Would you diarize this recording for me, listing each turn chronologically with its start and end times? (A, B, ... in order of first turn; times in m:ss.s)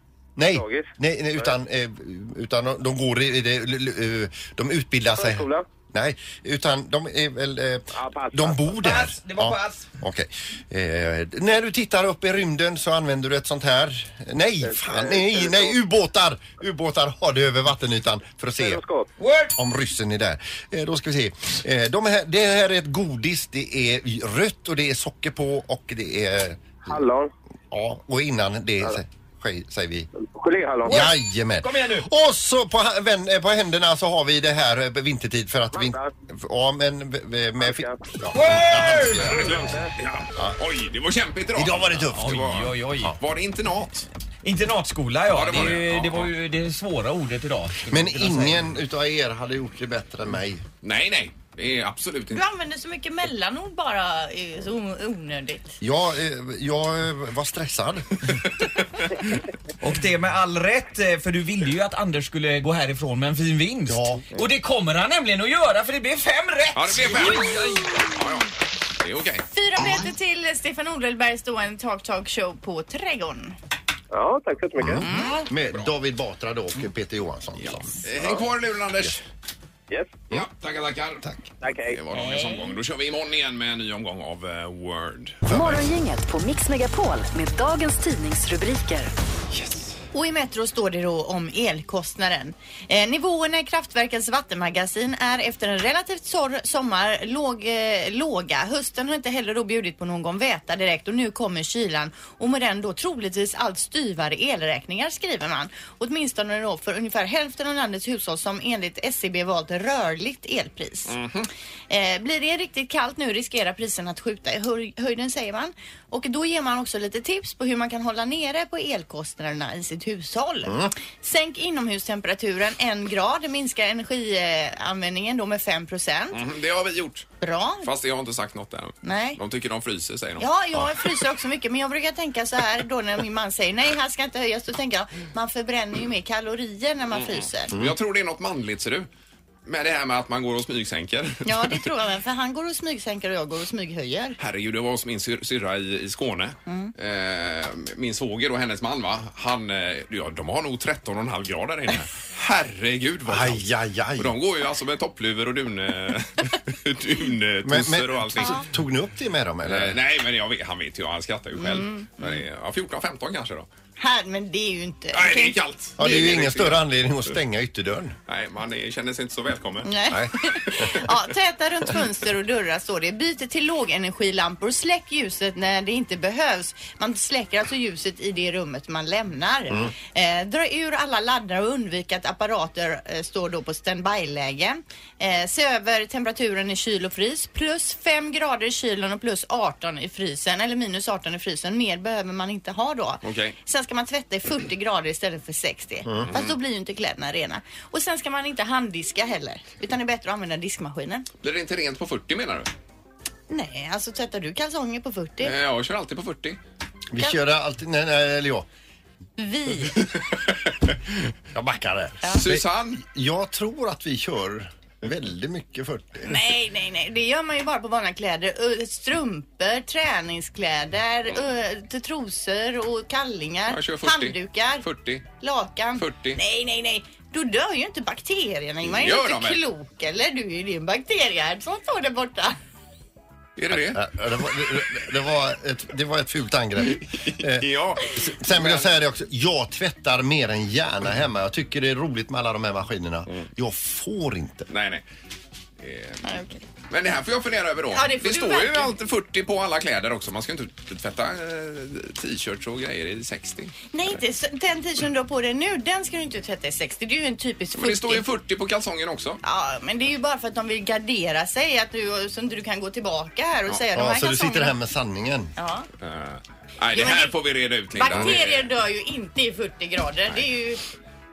0:00.4-0:18.8 A
0:00.5-0:00.9 B
0:05.2-0:05.7 B
0:07.9-0:08.7 B
0:08.8-0:09.9 C
0:14.7-0:15.7 B
0:18.6-0:19.1 B
0:19.2-0:19.6 C
0:19.6-0:26.9 A
0:26.9-0:27.3 B
0:27.7-0:30.1 A
0:30.2-0:31.0 B
0:30.9-0:32.1 C
0:30.9-0:39.7 A
0:35.7-0:36.1 B
0:37.6-0:38.0 B
0:38.3-0:39.6 C
0:39.2-0:44.1 D
0:41.6-0:43.2 A
0:42.1-0:43.2 C
0:44.4-0:48.6 C
0:45.3-0:46.3 D
0:47.9-0:50.6 A
0:50.8-0:52.4 D
0:52.3-0:55.8 E
0:55.8-0:58.1 A
0:59.8-1:07.8 C
1:03.9-1:04.2 A
1:06.8-1:08.5 D
1:09.0-1:09.4 D
1:09.5-1:13.6 E
1:14.1-1:15.0 B
1:14.8-1:18.4 A
1:15.0-1:15.4 E
1:17.6-1:19.2 D
1:19.9-1:20.3 B
1:20.3-1:21.2 D
1:21.6-1:22.0 B
1:21.8-1:25.7 D
1:25.5-1:25.8 A
1:25.5-1:29.1 F
1:29.5-1:29.9 D
1:30.1-1:51.2 E
1:51.1-1:51.5 D
1:51.9-2:06.4 E
2:00.7-2:00.9 A
2:06.3-2:07.3 D
2:07.4-2:07.9 E
2:07.8-2:10.5 D
2:09.0-2:09.4 E
2:10.4-2:17.7 E
2:17.1-2:19.1 D
2:19.7-2:21.9 D
2:21.5-2:24.4 E
2:24.4-2:33.7 D
2:26.7-2:26.9 E
2:33.3-2:34.4 A
2:34.2-2:38.6 D
2:37.6-2:40.0 A
2:38.4-2:38.6 E
2:39.6-2:43.7 D
2:41.6-2:42.4 E
2:44.0-2:45.6 E
2:45.1-2:46.8 D
2:46.0-2:48.2 A
2:48.3-2:49.9 D
2:49.8-3:21.3 E
2:50.1-2:51.0 A
3:13.2-3:13.6 D
3:16.1-3:16.3 A
3:16.2-3:16.6 D
3:21.4-3:22.7 D
3:23.5-3:25.5 E
3:25.4-3:26.6 D
3:27.1-3:28.7 A
3:29.4-3:30.2 E
3:31.5-3:36.3 A
3:32.3-3:33.0 D
3:36.2-3:52.6 E
3:43.7-3:45.2 D
3:46.0-3:46.4 D
3:48.8-3:49.6 D
3:53.6-3:54.0 D
3:53.7-4:04.7 A
3:56.9-3:58.9 D
4:04.7-4:05.0 D
4:05.8-4:06.3 D
4:06.2-4:06.6 E
4:06.9-4:13.8 D
4:07.9-4:08.9 E
4:13.9-4:18.3 E
4:17.8-4:19.4 D
4:19.4-4:24.7 E
4:23.9-4:25.5 A
4:25.6-4:25.9 E
4:26.0-4:28.7 D
4:26.9-4:27.3 E
4:27.9-4:30.8 E